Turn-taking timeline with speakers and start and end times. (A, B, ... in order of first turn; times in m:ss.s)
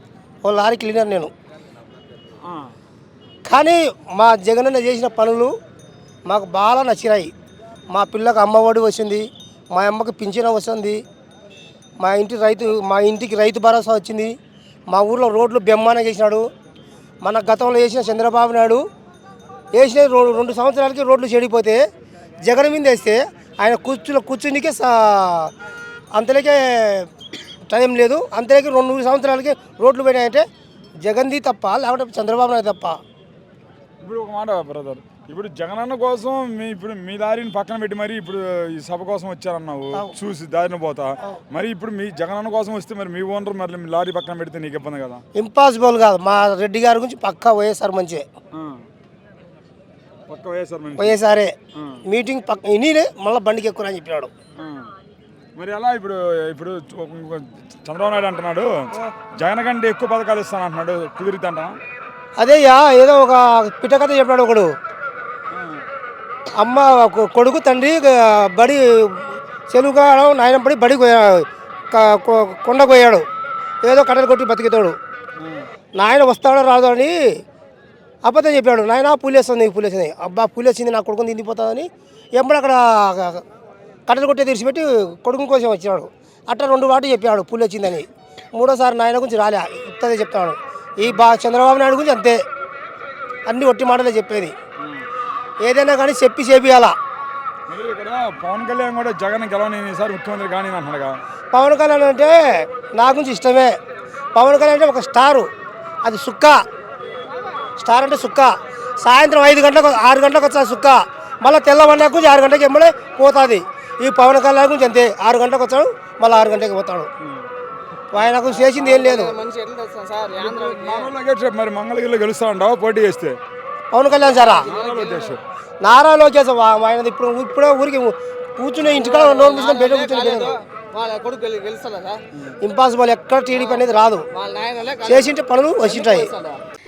0:00.4-0:01.3 A
0:03.4-0:05.5 A
0:06.3-0:07.3 A
0:07.9-0:11.0 A
0:12.0-0:14.3 A
0:14.9-0:16.5 A
0:17.2-0:18.8 A
0:19.7-0:21.8 A
0:22.4-0:25.5 A
0:26.1-0:27.1 A
0:27.7-0:30.4 A
0:31.0-0:33.0 A
0:34.0-0:45.2 B
0:45.4-0:48.3 A
0:48.5-0:48.8 B
0:50.3-0:51.2 B
0:51.0-0:51.5 A
0:51.7-0:52.0 B
0:52.0-0:54.3 A
0:54.6-0:54.9 B
0:55.6-1:01.8 B
1:02.4-1:04.7 A
1:05.5-1:05.8 B
1:06.6-1:13.2 A
1:13.8-1:15.0 A
1:15.4-1:15.7 B
1:15.9-1:17.4 A
1:18.2-1:23.4 A
1:24.1-1:32.4 A
1:33.5-1:34.5 A
1:35.6-1:37.0 A
1:37.7-1:41.2 B
1:41.5-1:43.8 A
1:44.3-1:45.5 A
1:46.0-1:46.6 A
1:47.8-1:57.1 A
1:58.1-1:59.4 A
1:58.1-2:01.1 C
2:00.3-2:03.4 B
2:03.9-2:04.7 A
2:04.2-2:05.3 C
2:04.6-2:05.4 B
2:05.8-2:10.5 A
2:08.9-2:12.2 C
2:12.6-2:14.3 A
2:13.5-2:16.6 C
2:15.0-2:16.3 A